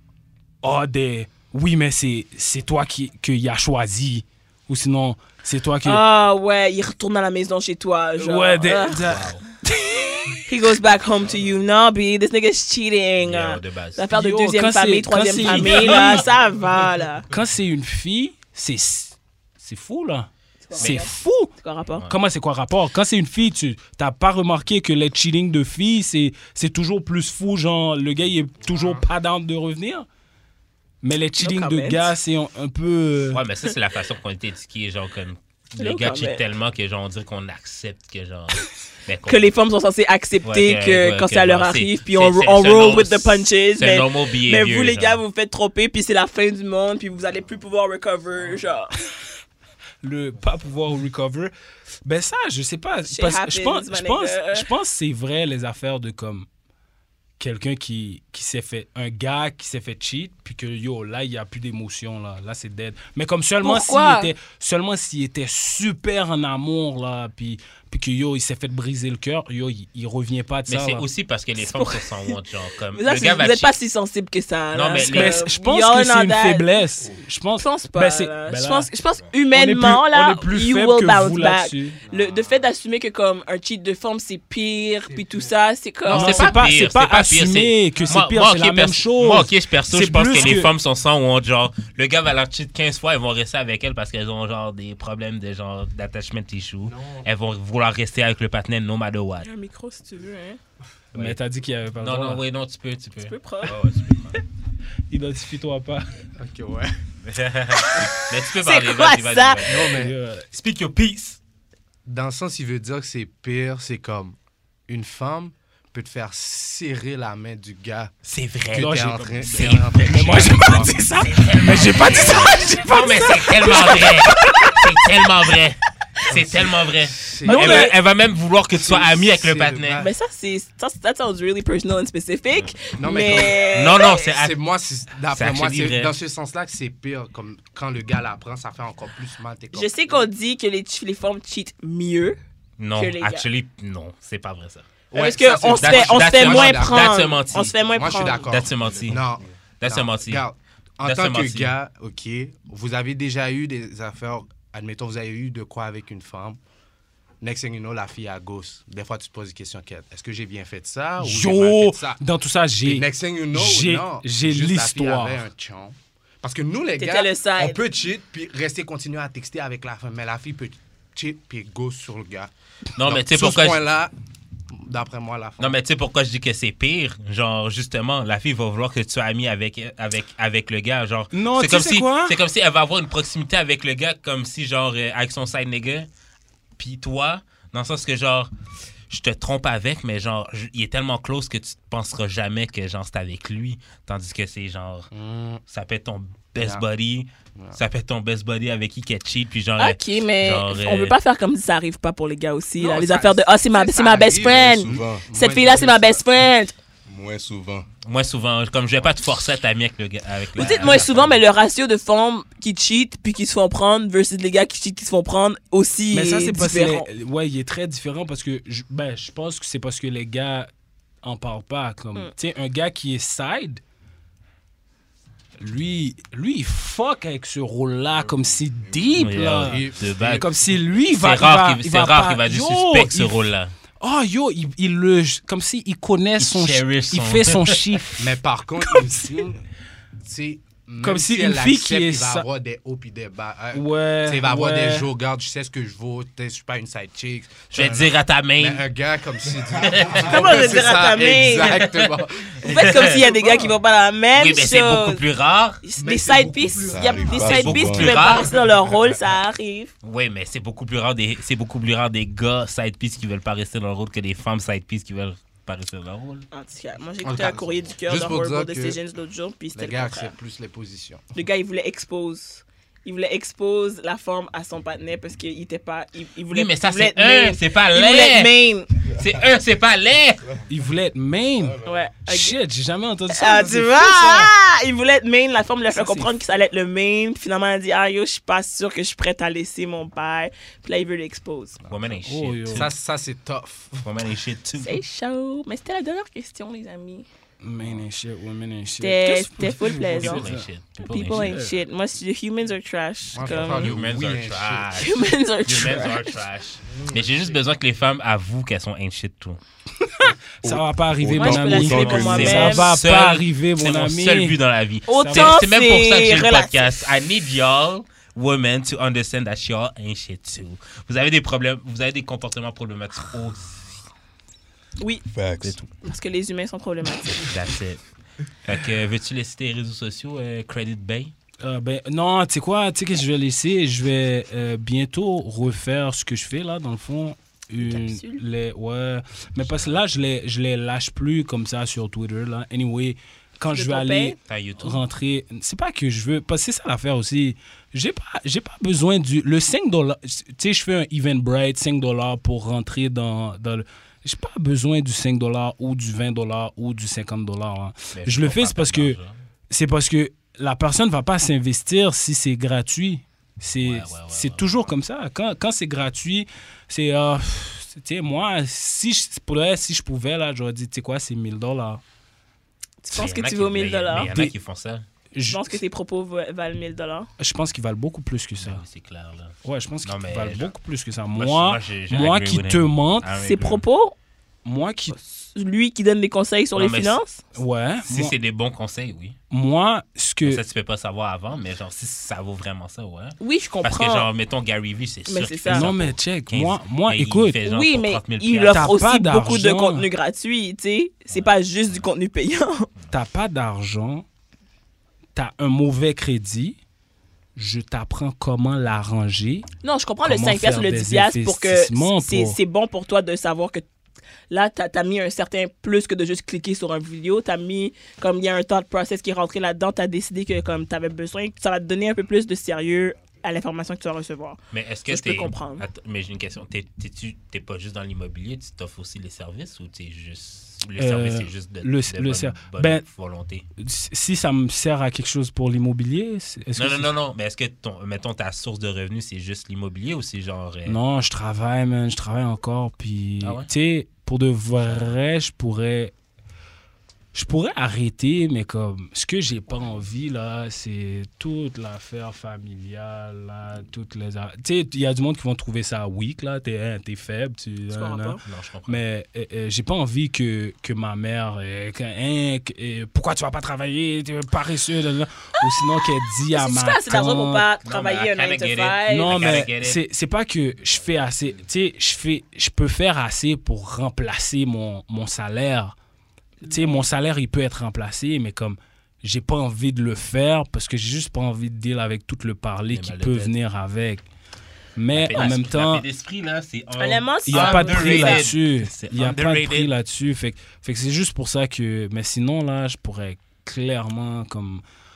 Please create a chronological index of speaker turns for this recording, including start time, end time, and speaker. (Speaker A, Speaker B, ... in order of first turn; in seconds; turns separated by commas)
Speaker A: 0.6-6.0, Speaker B: 5.8-9.1, Speaker A: 8.2-10.5, Speaker C: 9.0-9.4, Speaker B: 10.5-17.3, Speaker C: 13.2-14.1, Speaker A: 14.1-16.2, Speaker C: 15.3-16.2, Speaker A: 17.3-21.5, Speaker B: 20.6-22.1, Speaker A: 22.1-30.1, Speaker D: 28.7-29.0, Speaker A: 31.0-33.4, Speaker B: 31.4-32.1, Speaker C: 33.3-39.5, Speaker B: 35.8-36.4, Speaker B: 39.3-49.0, Speaker C: 40.4-45.2, Speaker A: 50.0-51.5, Speaker A: 52.0-56.5, Speaker B: 53.1-54.7, Speaker A: 57.4-71.0, Speaker B: 63.6-64.3, Speaker C: 70.7-73.7, Speaker B: 71.6-72.3, Speaker B: 72.9-76.7, Speaker C: 74.7-75.4, Speaker A: 75.0-78.9, Speaker B: 77.6-86.6, Speaker A: 79.5-82.0, Speaker D: 82.0-82.7, Speaker D: 85.0-85.5, Speaker A: 86.0-90.7, Speaker C: 86.1-99.5, Speaker D: 96.9-97.2, Speaker B: 99.4-100.6, Speaker A: 101.1-102.4, Speaker C: 102.0-104.4, Speaker B: 103.2-103.8, Speaker A: 105.1-106.1, Speaker D: 106.4-106.9, Speaker C: 107.2-111.4, Speaker B: 107.9-109.7, Speaker D: 109.6-110.1, Speaker A: 109.9-110.5, Speaker D: 112.0-114.4, Speaker D: 114.9-118.1, Speaker C: 118.3-130.0, Speaker D: 118.7-121.0, Speaker A: 118.7-124.9, Speaker D: 126.3-127.9, Speaker A: 127.5-127.9, Speaker D: 128.8-130.1, Speaker B: 130.0-134.3, Speaker D: 132.9-133.8, Speaker C: 133.6-134.6, Speaker D: 134.3-140.2, Speaker C: 135.3-136.1, Speaker B: 139.7-142.4, Speaker C: 142.8-144.9, Speaker B: 142.9-143.4, Speaker D: 145.1-156.6, Speaker B: 145.1-148.5, Speaker C: 145.7-149.2, Speaker E: 148.7-149.5, Speaker C: 149.8-150.4, Speaker C: 151.0-151.7, Speaker D: 157.4-162.2, Speaker A: 161.2-165.4, Speaker D: 162.8-174.1, Speaker B: 166.9-167.8, Speaker C: 172.9-173.8, Speaker D: 174.7-175.8, Speaker C: 175.6-186.1, Speaker A: 181.3-182.4, Speaker C: 186.8-188.5, Speaker C: 189.1-195.1, Speaker D: 195.1-195.6, Speaker C: 195.7-201.1, Speaker D: 196.6-196.8, Speaker B: 199.8-206.7, Speaker D: 202.8-206.2, Speaker E: 204.6-205.3, Speaker E: 207.1-207.9, Speaker C: 208.0-211.4, Speaker B: 210.5-217.1, Speaker A: 216.1-220.7, Speaker A: 221.2-223.8, Speaker A: 225.6-229.8, Speaker E: 228.1-229.4, Speaker C: 229.2-230.4, Speaker D: 229.6-230.4, Speaker E: 230.0-230.4, Speaker A: 230.4-239.5, Speaker C: 231.0-233.7, Speaker C: 236.4-238.0, Speaker D: 238.2-239.6, Speaker D: 240.2-253.8, Speaker A: 241.0-242.5, Speaker A: 243.7-245.1, Speaker C: 247.7-248.8, Speaker E: 249.5-250.8, Speaker C: 249.8-250.7, Speaker B: 250.2-251.9, Speaker C: 251.7-253.3, Speaker B: 252.6-255.2, Speaker C: 254.3-255.8, Speaker B: 255.8-259.9, Speaker D: 256.0-257.7, Speaker E: 256.9-258.3, Speaker C: 257.4-258.5, Speaker C: 260.0-266.4, Speaker B: 266.5-270.3, Speaker D: 267.2-269.0, Speaker D: 269.7-271.2, Speaker B: 271.3-278.9, Speaker C: 276.5-278.5, Speaker C: 279.1-280.4, Speaker A: 280.7-284.5, Speaker E: 281.6-282.0, Speaker B: 281.8-282.6, Speaker B: 283.3-291.8, Speaker A: 285.9-286.3, Speaker C: 291.9-292.9, Speaker A: 292.2-292.9, Speaker D: 292.7-294.1, Speaker C: 294.0-295.0, Speaker B: 294.8-297.3, Speaker A: 297.6-300.7, Speaker B: 299.0-300.4, Speaker C: 300.1-301.6, Speaker B: 301.0-303.9, Speaker A: 301.2-301.8, Speaker D: 303.3-305.0, Speaker C: 303.4-309.6, Speaker B: 304.9-306.3, Speaker E: 306.9-307.2, Speaker A: 310.0-314.6, Speaker E: 310.2-312.6, Speaker B: 311.3-312.9, Speaker C: 311.8-324.0, Speaker B: 315.1-317.0, Speaker A: 315.2-315.6, Speaker B: 325.0-325.2, Speaker E: 325.3-325.8, Speaker C: 325.6-325.9, Speaker B: 326.0-327.5, Speaker C: 327.3-328.0, Speaker C: 328.6-331.3, Speaker A: 331.6-359.2, Speaker B: 337.8-338.4, Speaker C: 339.6-340.0, Speaker B: 343.6-344.4, Speaker C: 344.4-345.0, Speaker C: 358.1-359.4, Speaker A: 359.7-372.0, Speaker C: 363.8-364.7, Speaker B: 373.0-374.3, Speaker C: 373.1-375.0, Speaker A: 374.1-374.5, Speaker A: 375.3-375.8, Speaker B: 375.5-377.3, Speaker A: 377.4-378.8, Speaker C: 378.6-380.7, Speaker A: 379.6-383.3, Speaker C: 381.4-383.8, Speaker B: 383.4-384.1, Speaker A: 384.6-385.2, Speaker B: 385.1-387.4, Speaker C: 386.7-387.2, Speaker A: 387.5-388.3, Speaker C: 388.1-389.4, Speaker A: 389.5-390.6, Speaker C: 390.4-398.9, Speaker B: 393.4-394.3, Speaker B: 395.3-395.9, Speaker A: 395.7-397.6, Speaker B: 397.6-402.9, Speaker A: 398.7-400.1, Speaker C: 401.3-402.1, Speaker A: 403.1-404.2, Speaker A: 405.3-406.8, Speaker A: 407.5-409.7, Speaker B: 409.8-413.8, Speaker A: 410.2-412.6, Speaker B: 414.5-425.9, Speaker C: 424.7-433.6, Speaker A: 431.0-433.0, Speaker A: 433.8-437.1, Speaker C: 436.7-441.0, Speaker A: 440.9-446.1, Speaker C: 443.4-443.7, Speaker A: 447.3-467.7, Speaker B: 457.9-458.4, Speaker C: 458.4-459.0, Speaker B: 466.5-469.5, Speaker C: 467.8-470.0, Speaker A: 469.1-475.9, Speaker A: 476.6-484.2, Speaker B: 476.6-477.0, Speaker C: 482.9-483.5, Speaker A: 484.9-486.0, Speaker C: 485.1-489.9, Speaker B: 487.0-488.5, Speaker A: 487.5-494.8